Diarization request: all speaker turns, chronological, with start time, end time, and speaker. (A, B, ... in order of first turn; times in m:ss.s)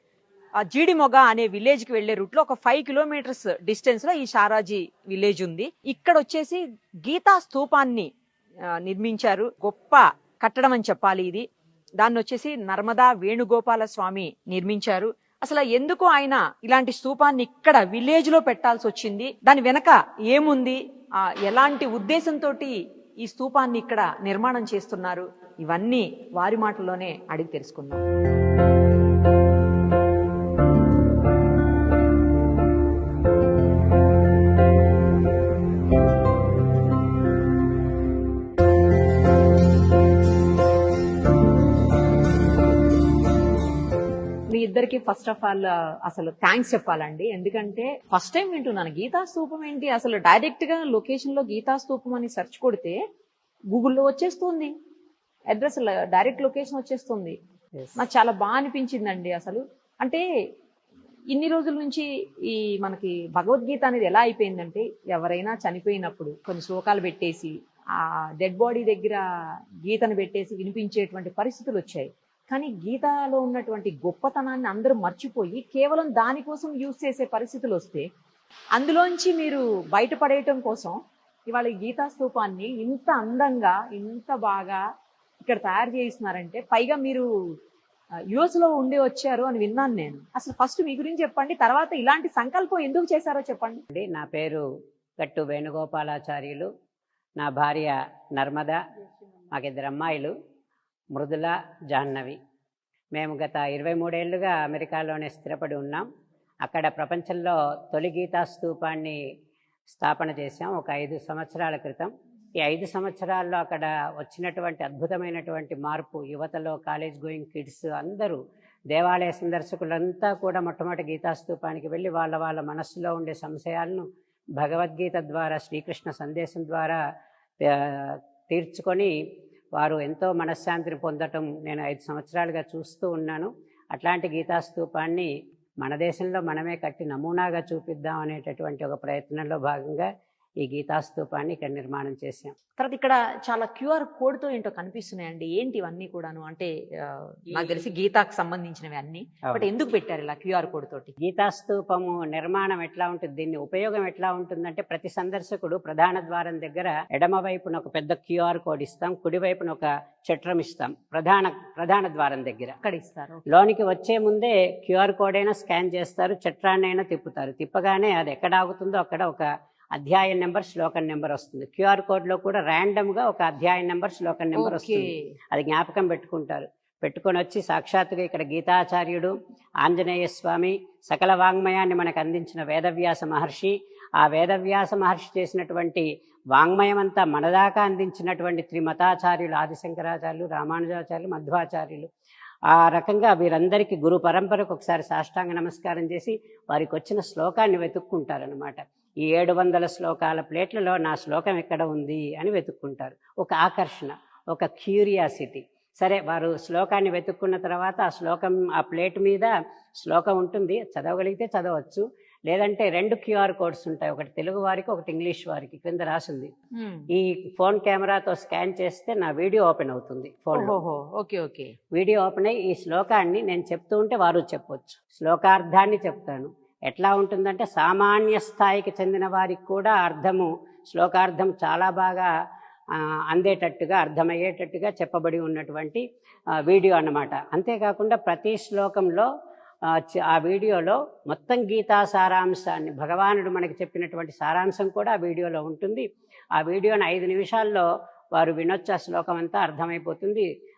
0:00.6-0:08.1 A
0:08.8-0:11.4 A
0:12.0-0:28.0 A
0:44.5-0:53.0 A
0:53.7-0:54.7 A
0:55.5-0:57.4 A
0:57.8-0:58.0 B
0:58.0-1:00.2 A
1:01.3-1:09.2 A
1:09.8-1:18.1 A
1:18.7-1:24.8 A
1:25.4-1:27.3 A
1:28.3-1:33.8 A
1:33.9-1:34.6 B
1:35.2-1:36.7 B
1:37.4-1:38.8 B
1:39.5-1:40.3 B
1:41.1-1:42.4 B
1:43.1-1:46.0 B
1:46.6-1:49.2 B
1:49.9-1:58.4 B
1:58.9-2:04.0 B
2:04.6-2:07.0 B
2:07.6-2:09.1 B
2:09.8-2:15.3 B
2:15.8-2:20.1 B
2:20.6-2:22.5 B
2:22.8-2:31.2 A
2:29.4-2:29.7 B
2:31.2-2:42.8 B
2:42.8-2:43.4 A
2:43.5-3:12.1 B
2:54.5-2:55.2 A
3:12.7-3:29.5 B
3:30.0-3:36.5 B
3:36.8-3:37.1 A
3:37.1-3:40.8 B
3:40.5-3:41.7 A
3:41.9-3:52.3 B
3:53.0-3:56.0 B
3:56.6-3:59.3 B
3:59.9-4:06.0 B
4:06.6-4:10.4 B